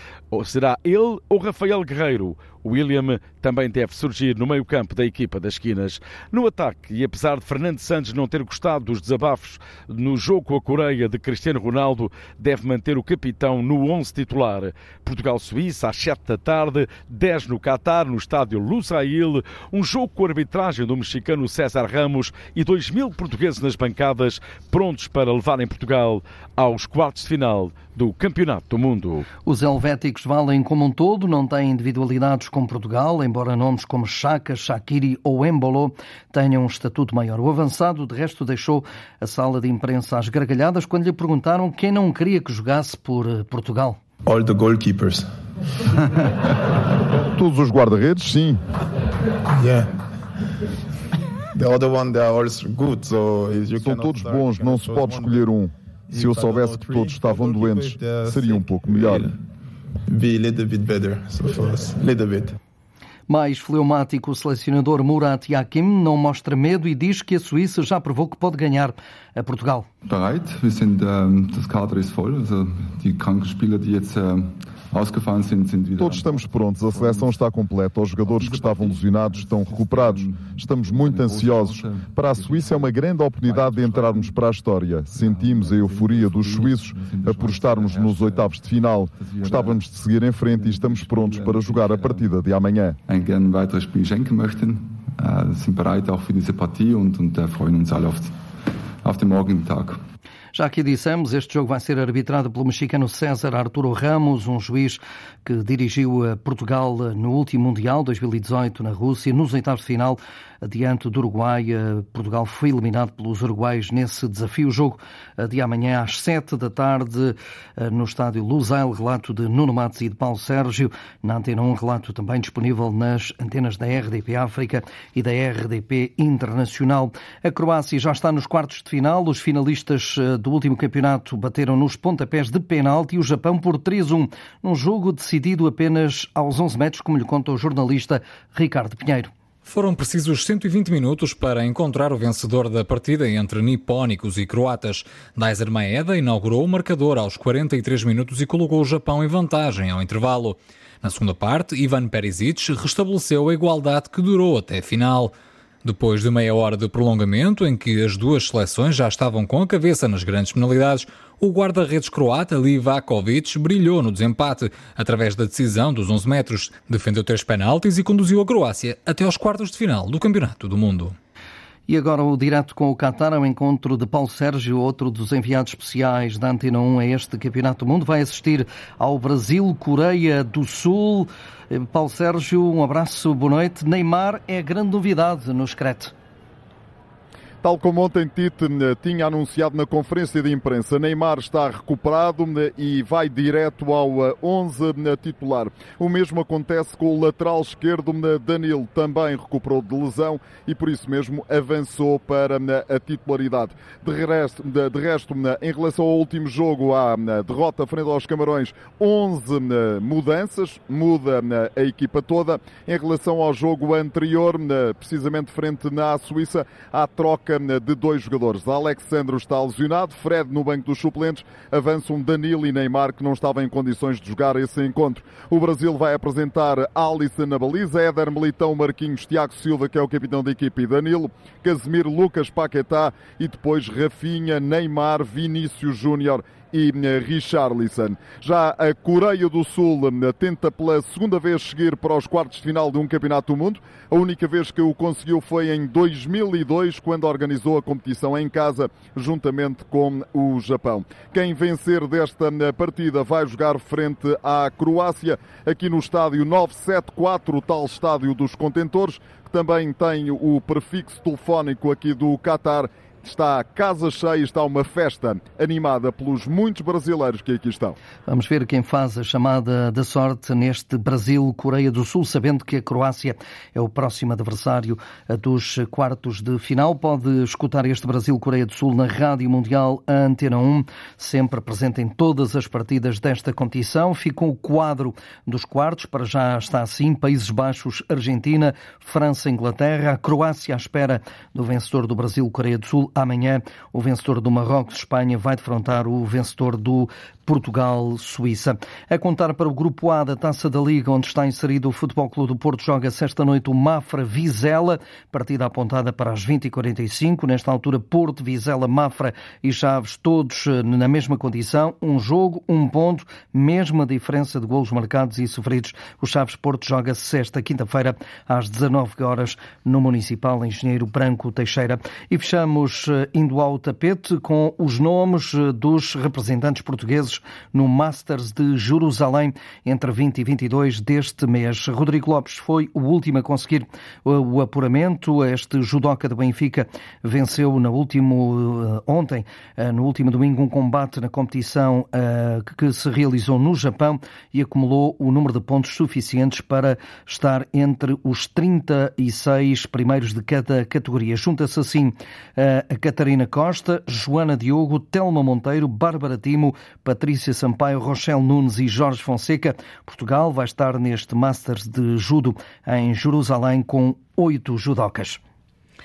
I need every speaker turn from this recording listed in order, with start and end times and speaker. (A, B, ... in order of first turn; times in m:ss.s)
0:00.3-0:29.3 A
0:29.4-0:44.0 B
0:44.3-0:45.3 C
0:47.4-0:48.6 D
0:49.6-0:49.9 C
0:51.6-0:55.4 C
0:53.8-0:59.3 D
0:56.1-0:59.3 C
1:00.1-1:02.6 C
1:03.3-1:09.9 B
1:10.1-1:17.4 E
1:16.0-1:33.0 D
1:18.3-1:24.5 E
1:25.1-1:28.6 E
1:29.2-1:29.8 E
1:30.4-1:32.3 E
1:33.1-1:38.3 E
1:39.0-1:40.0 E
1:40.5-2:19.3 B
2:19.6-2:35.3 F
2:35.8-2:51.2 F
2:51.9-3:06.1 B
3:07.6-4:28.0 D
4:28.3-6:05.4 B